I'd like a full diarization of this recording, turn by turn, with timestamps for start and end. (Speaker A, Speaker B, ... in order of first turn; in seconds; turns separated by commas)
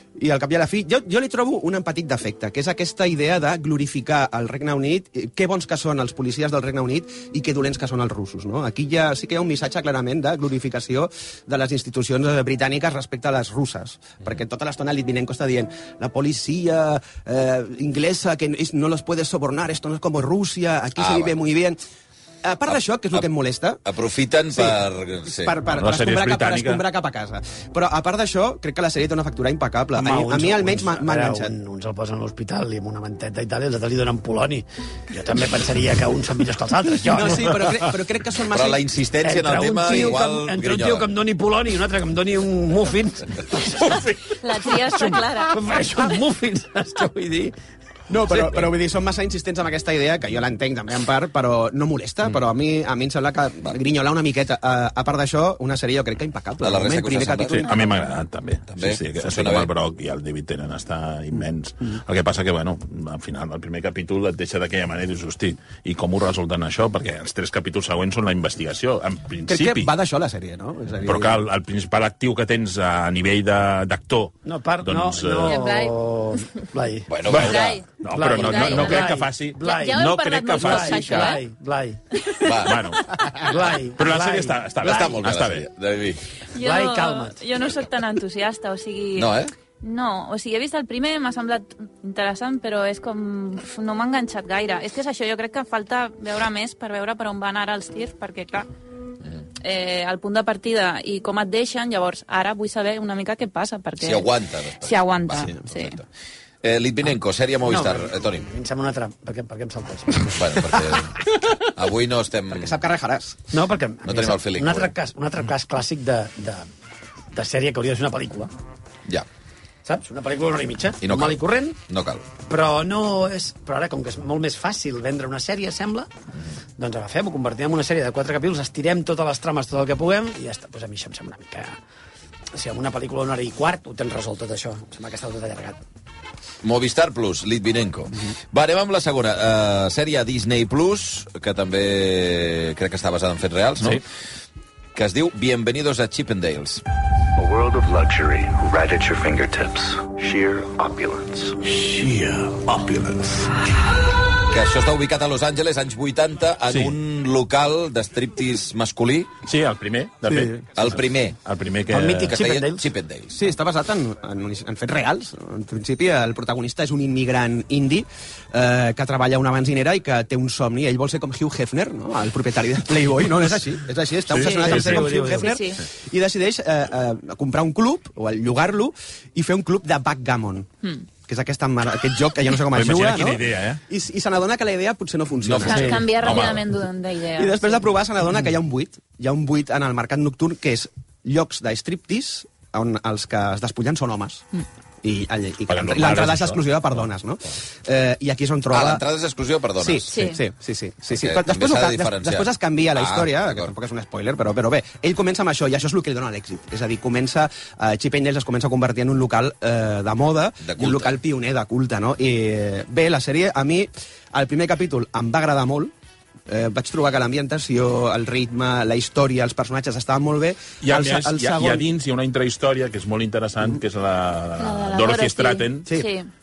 Speaker A: 0.1-21.8, Speaker B: 21.0-21.4, Speaker A: 22.4-23.8, Speaker B: 23.8-25.6, Speaker A: 24.5-31.5, Speaker C: 25.7-26.8, Speaker D: 30.0-37.6, Speaker A: 37.0-38.9, Speaker B: 38.5-41.1, Speaker D: 39.2-47.5, Speaker E: 44.3-46.0, Speaker A: 48.1-57.7, Speaker B: 56.6-57.7, Speaker C: 57.5-69.9, Speaker B: 58.7-59.7, Speaker A: 69.5-71.4, Speaker C: 71.0-75.6, Speaker D: 74.4-77.1, Speaker E: 75.5-76.0, Speaker B: 77.1-77.8, Speaker C: 77.3-81.4, Speaker E: 77.3-81.4, Speaker D: 78.1-82.0, Speaker E: 82.1-82.8, Speaker B: 82.4-82.9, Speaker C: 82.6-85.7, Speaker D: 83.4-85.2, Speaker B: 84.8-86.2, Speaker E: 86.5-98.7, Speaker D: 86.6-87.4, Speaker B: 89.2-89.5, Speaker E: 99.6-106.0, Speaker B: 104.0-106.0, Speaker B: 106.6-108.4, Speaker D: 107.6-110.7, Speaker B: 110.3-112.8, Speaker A: 112.5-113.4, Speaker D: 113.5-116.7, Speaker B: 114.0-114.9, Speaker D: 117.3-118.5, Speaker D: 119.8-121.8, Speaker B: 121.0-122.2, Speaker D: 122.5-126.1, Speaker D: 126.8-131.8, Speaker D: 132.5-135.8, Speaker B: 136.6-144.0, Speaker B: 144.9-146.8, Speaker F: 147.3-153.5, Speaker B: 154.5-159.4, Speaker C: 156.7-156.9, Speaker C: 159.4-162.3, Speaker A: 160.3-160.6, Speaker B: 160.8-161.4, Speaker D: 161.9-162.9, Speaker B: 162.2-163.4, Speaker A: 163.3-180.7, Speaker C: 174.3-175.1, Speaker D: 174.4-175.5, Speaker E: 175.3-175.8, Speaker A: 181.3-186.6, Speaker C: 182.7-183.8, Speaker C: 185.5-186.6, Speaker E: 185.6-187.8, Speaker A: 187.4-194.4, Speaker A: 195.0-199.0, Speaker C: 195.7-196.7, Speaker B: 198.7-200.1, Speaker A: 199.8-215.9, Speaker E: 200.1-200.4, Speaker B: 201.1-203.7, Speaker B: 210.6-211.2, Speaker A: 216.5-221.9, Speaker C: 220.8-225.9, Speaker E: 224.6-226.3